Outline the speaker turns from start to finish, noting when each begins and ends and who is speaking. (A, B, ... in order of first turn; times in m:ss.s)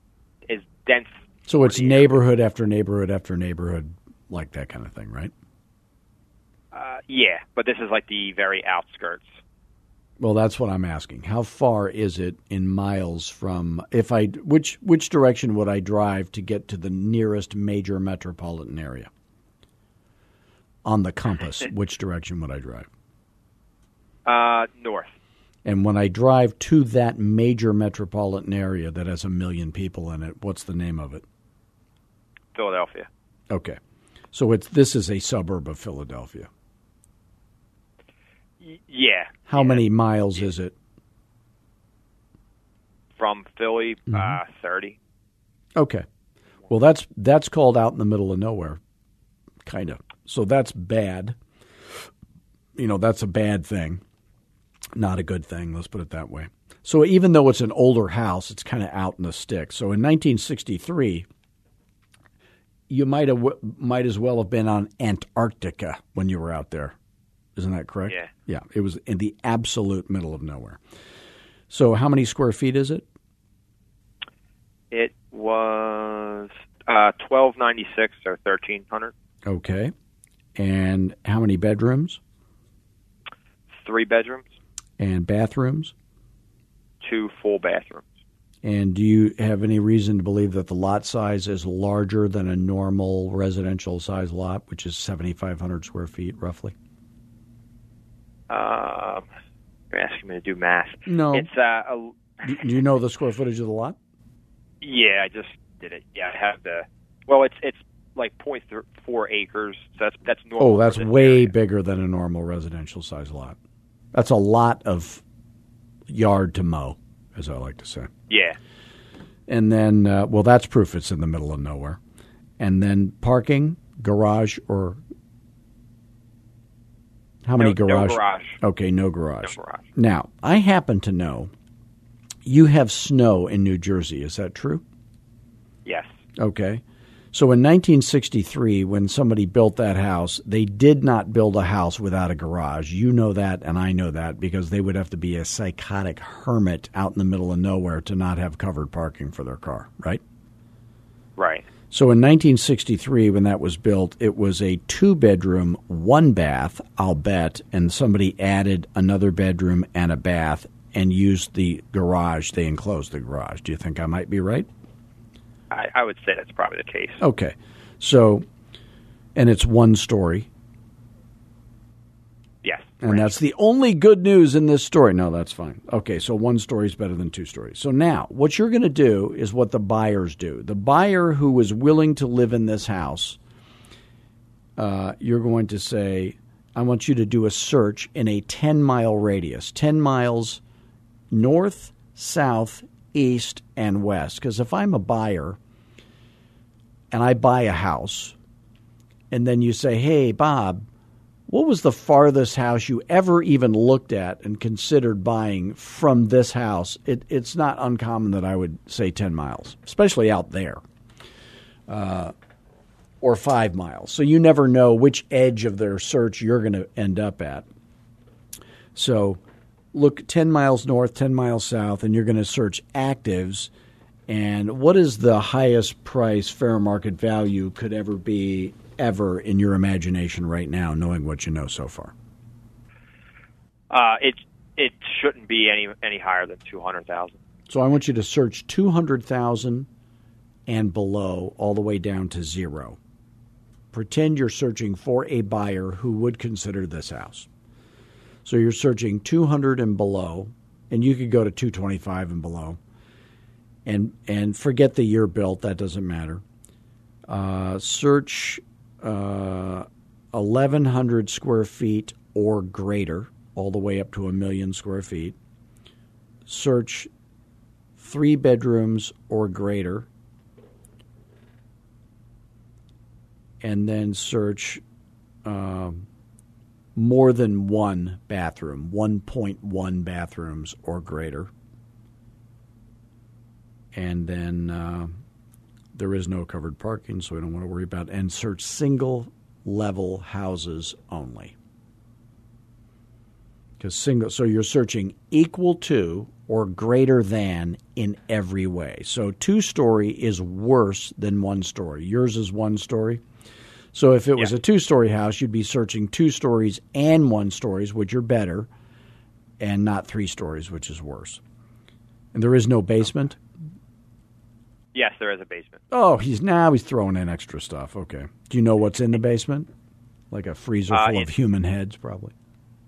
0:00.5-0:02.1 A
0:01.5-0:05.3 B
0:06.7-0:09.3 A
0:10.2-0:19.1 B
0:20.8-0:22.9 B
0:24.2-0:25.1 A
0:25.6-0:31.2 B
0:32.5-0:33.1 A
0:33.5-0:33.8 B
0:34.3-0:36.5 B
0:38.6-0:39.8 A
0:39.5-0:40.7 B
0:43.2-0:45.0 A
0:44.1-0:44.4 B
0:45.8-0:46.0 B
0:46.7-0:48.8 B
0:49.6-0:51.4 B
0:52.7-0:54.0 B
0:54.9-1:01.3 B
1:02.9-1:06.9 B
1:07.6-1:10.8 B
1:11.7-1:13.0 B
1:14.9-1:19.1 A
1:19.4-1:19.9 B
1:20.5-1:22.2 B
1:23.8-1:24.4 A
1:25.0-1:25.9 B
1:27.0-1:28.0 A
1:28.6-1:36.7 B
1:38.5-1:39.2 A
1:39.9-1:42.2 A
1:41.0-1:41.5 B
1:42.4-1:44.0 B
1:44.8-1:51.5 A
1:50.6-1:53.6 B
1:54.1-1:55.2 B
1:56.1-1:58.1 B
1:58.3-1:58.6 A
1:59.5-2:02.0 B
2:02.6-2:05.0 B
2:07.4-2:11.5 B
2:07.6-2:08.6 A
2:09.4-2:09.8 A
2:12.4-2:14.8 B
2:15.8-2:16.1 A
2:16.4-2:30.2 B
2:31.4-2:31.7 A
2:31.9-2:44.7 B
2:45.7-2:47.2 A
2:47.2-2:48.4 B
2:49.3-2:50.5 B
2:52.6-2:53.4 A
2:53.0-3:03.4 B
3:04.8-3:10.6 B
3:11.3-3:15.6 B
3:17.1-3:18.4 B
3:19.3-3:20.8 B
3:21.5-3:30.8 B
3:31.9-3:32.3 B
3:33.2-3:37.6 B
3:38.9-3:39.4 B
3:39.9-3:43.7 B
3:44.3-3:52.1 B
3:53.9-3:57.4 A
3:57.7-3:59.9 B
4:00.7-4:03.0 B
4:03.9-4:07.5 B
4:08.4-4:12.8 B
4:13.8-4:16.4 B
4:17.3-4:25.4 B
4:26.5-4:27.1 B
4:28.0-4:30.1 B
4:33.6-4:34.8 B
4:35.4-4:36.1 B
4:36.9-4:41.5 B
4:43.9-4:45.1 B
4:45.9-4:51.5 B
4:53.8-5:03.2 B
5:03.9-5:08.7 B
5:09.6-5:11.4 B
5:12.3-5:13.4 B
5:14.9-5:15.8 A
5:15.9-5:19.7 B
5:20.3-5:22.3 B
5:20.9-5:21.3 A